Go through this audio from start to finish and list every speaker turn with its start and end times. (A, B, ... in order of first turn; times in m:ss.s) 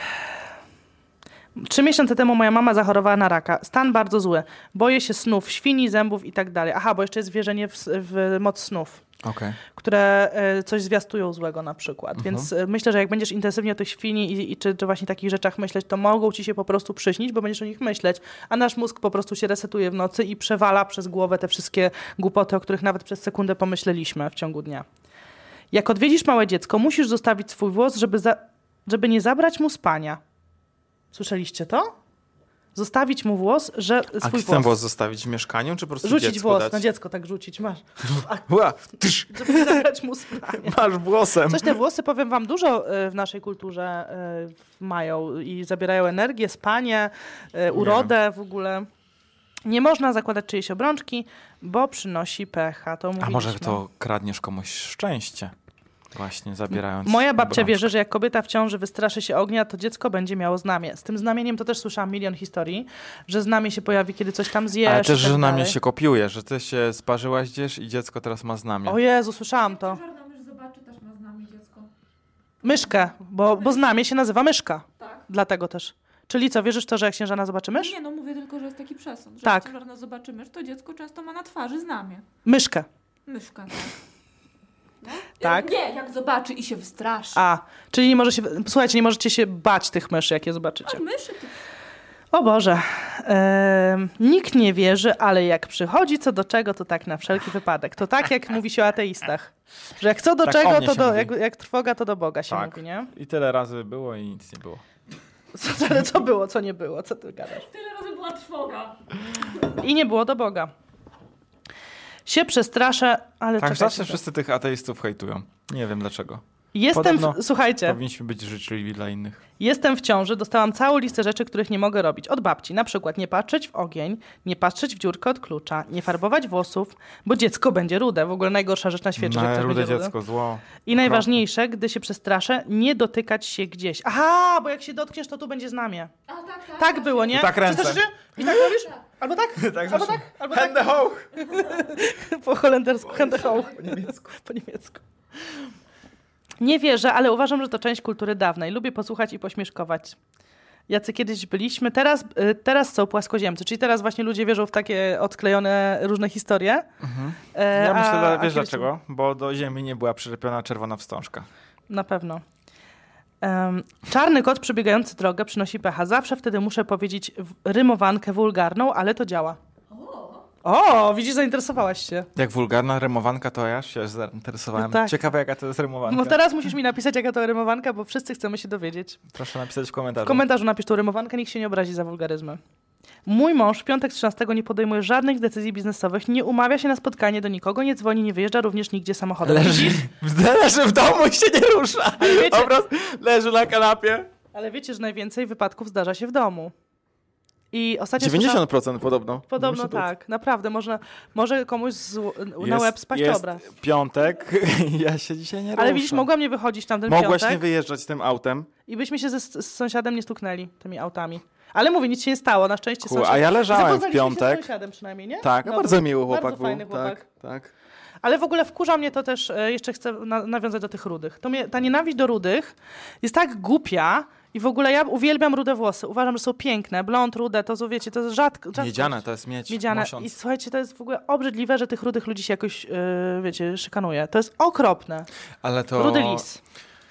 0:01.6-0:09.0 A
0:09.2-0:09.6 B
0:09.7-0:24.8 A
0:12.2-0:12.5 B
0:25.7-0:30.2 A
0:31.1-0:31.9 A
0:32.7-0:34.7 A
0:34.2-0:36.8 B
0:36.0-0:38.4 A
0:38.0-0:39.8 B
0:39.3-0:40.8 A
0:40.5-0:41.8 B
0:41.5-0:48.9 A
0:47.7-0:48.1 B
0:49.6-0:53.8 A
0:53.2-0:55.5 B
0:56.1-0:57.9 B
0:57.0-1:05.8 A
1:04.8-1:09.0 B
1:08.8-1:10.0 A
1:09.6-1:11.9 C
1:12.6-1:17.9 A
1:13.6-1:13.8 C
1:15.0-1:15.2 C
1:17.7-1:22.2 C
1:19.4-1:19.7 A
1:22.4-1:22.9 A
1:23.2-1:24.0 C
1:25.0-1:27.4 C
1:25.4-1:25.7 A
1:27.3-1:31.0 A
1:30.8-1:31.5 C
1:32.3-1:43.1 A
1:40.4-1:41.3 B
1:42.5-1:44.8 B
1:45.5-1:47.7 A
1:47.6-1:49.0 C
1:49.6-1:50.7 A
1:52.2-1:54.2 A
1:53.6-1:59.4 B
1:56.7-1:58.0 A
1:59.6-2:10.1 A
2:09.2-2:11.4 B
2:10.8-2:16.1 A
2:16.3-2:17.5 C
2:16.8-2:25.0 A
2:17.3-2:18.5 B
2:19.6-2:21.3 B
2:23.1-2:24.2 B
2:26.6-2:30.2 A
2:30.9-2:36.9 A
2:37.0-2:41.5 B
2:37.5-2:38.9 A
2:41.9-2:42.4 A
2:43.4-2:49.6 A
2:49.9-2:50.4 C
2:50.6-2:52.3 A
2:52.4-2:56.4 B
2:54.8-2:55.2 A
2:56.1-2:59.2 A
2:59.3-3:00.4 B
3:00.2-3:02.6 A
3:03.2-3:10.0 A
3:09.4-3:14.3 B
3:12.2-3:12.7 A
3:14.5-3:16.7 A
3:17.7-3:18.6 A
3:18.2-3:20.1 B
3:19.5-3:23.6 A
3:22.6-3:26.3 B
3:25.8-3:27.6 A
3:27.0-3:28.7 B
3:28.8-3:37.2 A
3:33.0-3:34.7 B
3:35.4-3:37.7 B
3:38.2-3:55.3 A
3:48.7-3:50.3 B
3:55.6-3:56.4 B
3:56.0-3:56.6 A